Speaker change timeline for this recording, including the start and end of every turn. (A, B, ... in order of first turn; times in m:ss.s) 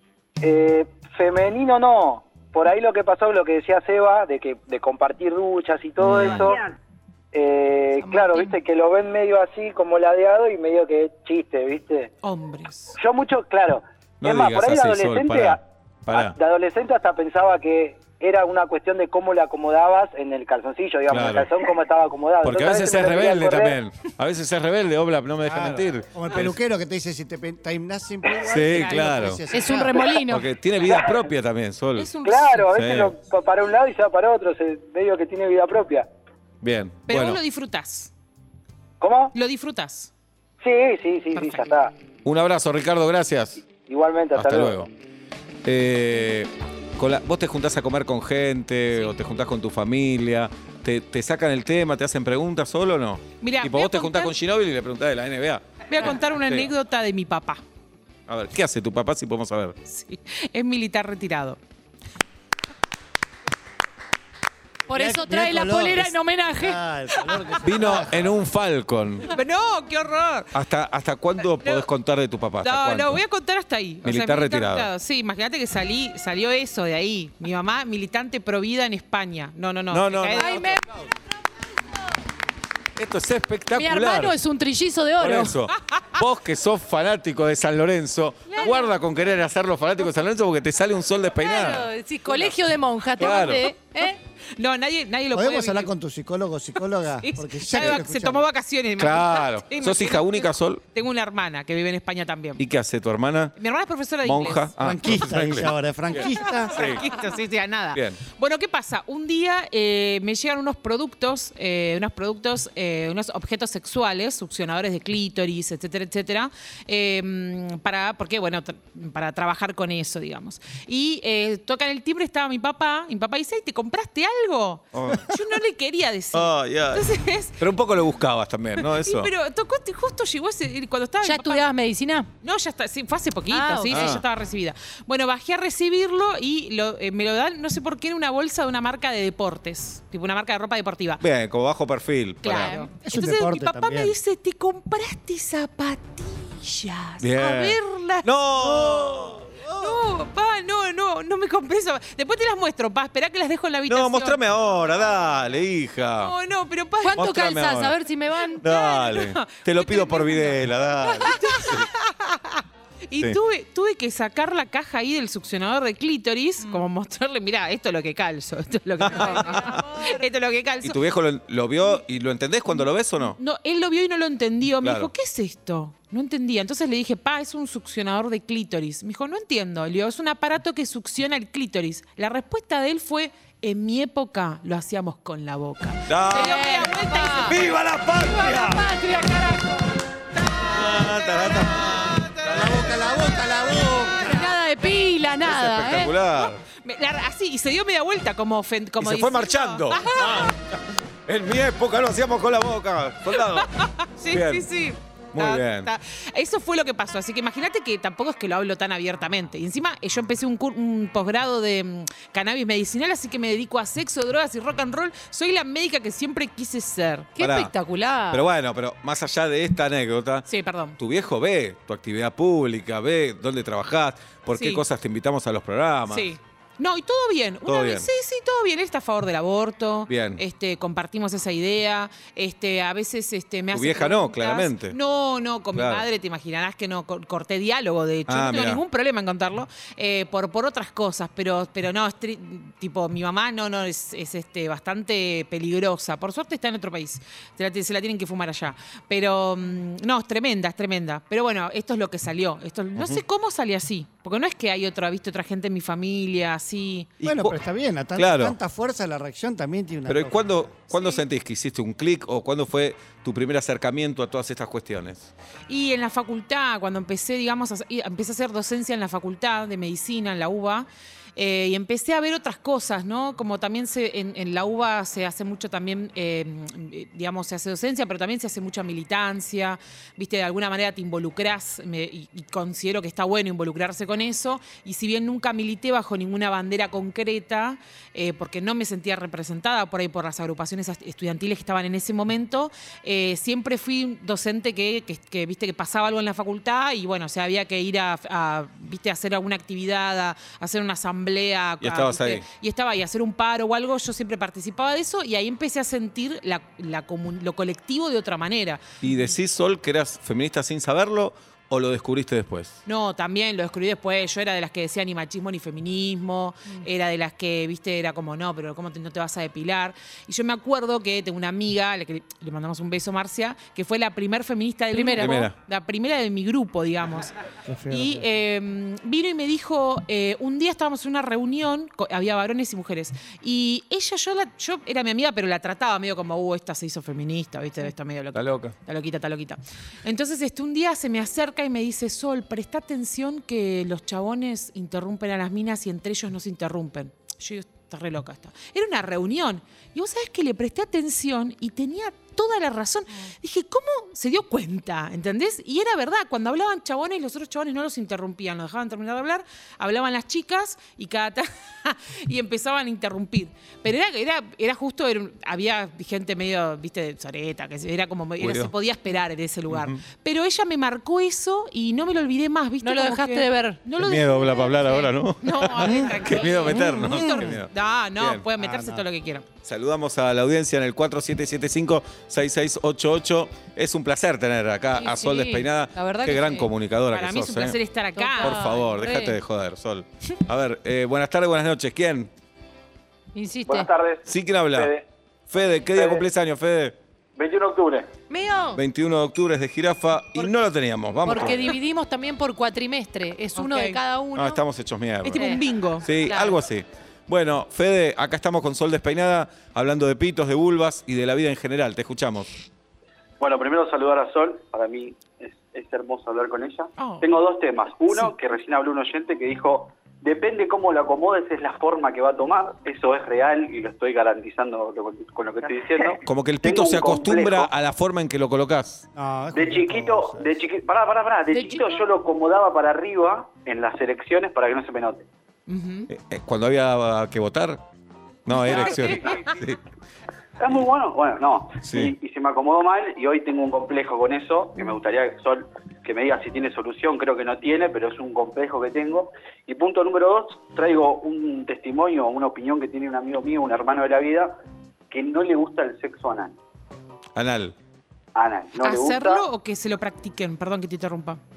0:00.4-0:06.7 A
0:06.0-0:06.6 B
0:07.3-0:12.1 A
0:08.0-0:08.4 C
0:12.2-0:13.0 D
0:13.0-0:15.6 A
0:14.2-0:16.3 B
0:16.1-0:23.7 A
0:21.1-0:21.5 B
0:22.4-0:26.6 B
0:25.4-0:30.2 E
0:28.4-0:29.4 B
0:28.8-0:29.0 D
0:29.5-0:30.5 C
0:30.3-0:32.1 B
0:30.8-0:31.2 A
0:32.0-0:32.7 D
0:32.2-0:36.1 A
0:32.7-0:33.1 B
0:36.6-0:37.4 B
0:37.1-0:38.1 D
0:39.0-0:39.3 A
0:39.3-0:40.1 D
0:40.6-0:41.9 A
0:41.3-0:41.7 D
0:42.2-0:43.6 B
0:43.8-0:44.7 A
0:44.3-0:44.9 B
0:45.6-0:55.6 B
0:53.4-0:54.3 D
0:55.9-0:57.6 D
0:58.3-0:59.8 B
0:59.8-1:01.6 D
1:04.9-1:06.8 C
1:04.9-1:08.3 E
1:07.1-1:07.5 D
1:07.6-1:09.3 B
1:09.2-1:10.5 D
1:10.5-1:13.2 B
1:11.6-1:11.9 D
1:12.6-1:20.8 D
1:14.0-1:14.9 B
1:19.9-1:20.7 B
1:20.3-1:20.8 C
1:23.0-1:24.3 B
1:23.7-1:25.6 C
1:25.2-1:31.9 B
1:28.6-1:28.9 C
1:31.4-1:34.2 C
1:33.2-1:33.7 B
1:34.6-1:35.9 D
1:35.3-1:38.4 E
1:37.2-1:42.6 D
1:39.0-1:40.8 B
1:42.6-1:43.6 B
1:43.6-1:44.8 D
1:44.2-1:47.0 B
1:44.8-1:46.9 E
1:46.4-2:07.6 D
1:47.9-1:48.2 B
2:04.9-2:05.3 B
2:06.3-2:07.1 B
2:07.6-2:09.3 B
2:08.8-2:11.6 D
2:11.2-2:12.3 C
2:12.4-2:21.2 D
2:13.5-2:14.2 C
2:13.9-2:14.2 B
2:21.2-2:22.7 B
2:22.4-2:29.1 D
2:22.5-2:22.9 C
2:23.0-2:24.1 E
2:27.2-2:30.0 B
2:29.8-2:34.4 D
2:33.9-2:36.3 B
2:36.2-2:37.2 D
2:37.0-2:38.7 C
2:37.2-2:38.0 B
2:38.6-2:51.0 D
2:38.6-2:41.9 B
2:41.3-2:41.6 C
2:49.0-2:49.8 B
2:49.1-2:50.2 C
2:50.8-2:53.4 B
2:53.4-3:07.6 D
2:54.8-2:55.1 B
3:06.1-3:06.8 B
3:06.3-3:09.8 C
3:07.5-3:08.9 B
3:10.5-3:13.2 B
3:12.1-3:12.4 D
3:12.4-3:14.4 E
3:14.2-3:16.1 C
3:15.4-3:16.6 B
3:16.4-3:20.5 D
3:19.0-3:20.7 B
3:21.3-3:23.7 B
3:23.3-3:37.3 D
3:24.3-3:24.7 B
3:25.3-3:25.9 B
3:37.4-3:38.4 C
3:37.4-3:37.7 B
3:38.3-3:40.5 B
3:40.4-3:41.0 D
3:41.0-3:46.3 B
3:44.5-3:44.8 D
3:46.1-4:17.1 D
3:47.6-3:48.1 B
3:50.1-3:50.4 B
3:53.7-3:55.0 B
3:55.7-3:56.0 B
3:58.3-3:58.8 B
4:13.0-4:13.2 B
4:17.2-4:17.6 B
4:17.2-4:20.7 E
4:18.1-4:18.6 B
4:20.1-4:25.3 B
4:20.9-4:21.2 D
4:25.7-5:09.0 D
5:01.8-5:02.4 B
5:09.0-5:12.8 B
5:12.8-5:27.3 D
5:24.9-5:25.4 C
5:25.2-5:25.5 B
5:27.6-5:28.3 E
5:27.9-6:19.4 D
5:38.3-5:38.7 B
6:08.4-6:08.7 B
6:09.7-6:10.0 B
6:12.8-6:13.8 C
6:14.0-6:18.4 B
6:17.0-6:17.4 C
6:18.6-6:19.0 E
6:19.6-6:27.8 B
6:24.9-6:26.7 C
6:27.1-6:28.6 D
6:28.2-6:29.4 C
6:28.4-6:32.3 B
6:33.3-6:33.9 C
6:33.6-6:35.0 F
6:34.3-6:34.9 B
6:35.5-6:37.0 B
6:35.9-6:36.2 F
6:37.4-6:38.1 F
6:38.3-6:38.8 C
6:38.7-6:41.8 B
6:41.2-6:44.6 C
6:43.6-6:44.0 D
6:44.3-6:45.5 B
6:45.2-6:46.0 D
6:45.3-6:45.6 C
6:46.0-6:52.5 B
6:46.2-6:46.6 C
6:53.4-7:07.7 F
6:57.0-6:57.3 D
7:06.2-7:09.0 B
7:09.1-7:10.5 E
7:09.5-7:15.3 F
7:11.5-7:11.9 C
7:15.7-7:16.1 D
7:16.1-7:17.8 B
7:18.4-7:19.8 B
7:18.5-7:19.4 D
7:18.7-7:19.3 F
7:20.6-7:34.6 F
7:21.8-7:22.1 B
7:35.1-7:36.6 F
7:37.3-7:37.7 B
7:38.3-7:39.4 F
7:38.8-7:41.4 D